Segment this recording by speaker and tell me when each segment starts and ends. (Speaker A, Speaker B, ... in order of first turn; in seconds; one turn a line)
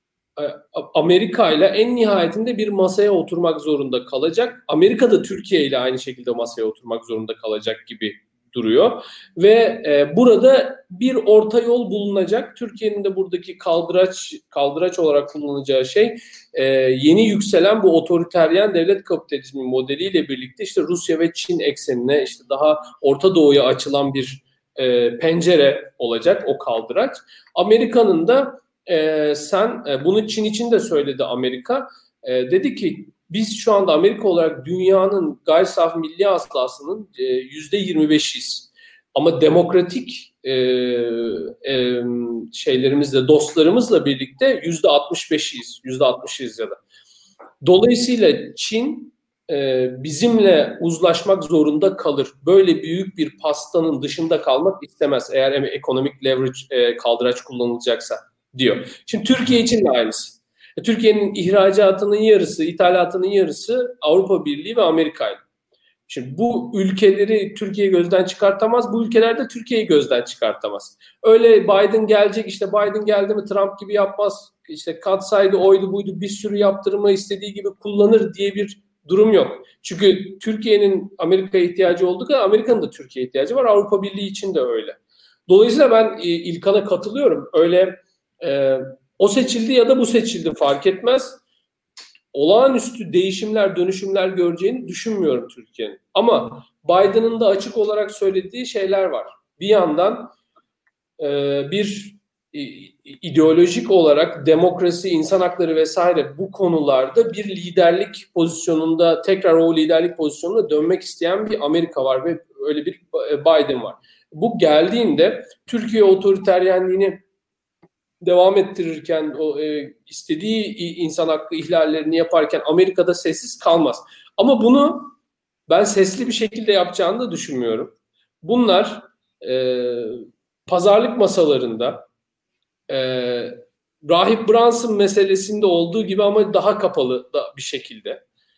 Speaker A: 0.4-46.8
Speaker A: 47.6-65.4
Speaker A: 66.1-91.4
Speaker A: 92.3-100.3
Speaker A: 101.2-117.2
Speaker A: 118.2-125.1
Speaker A: 125.7-132.1
Speaker A: 132.9-138.2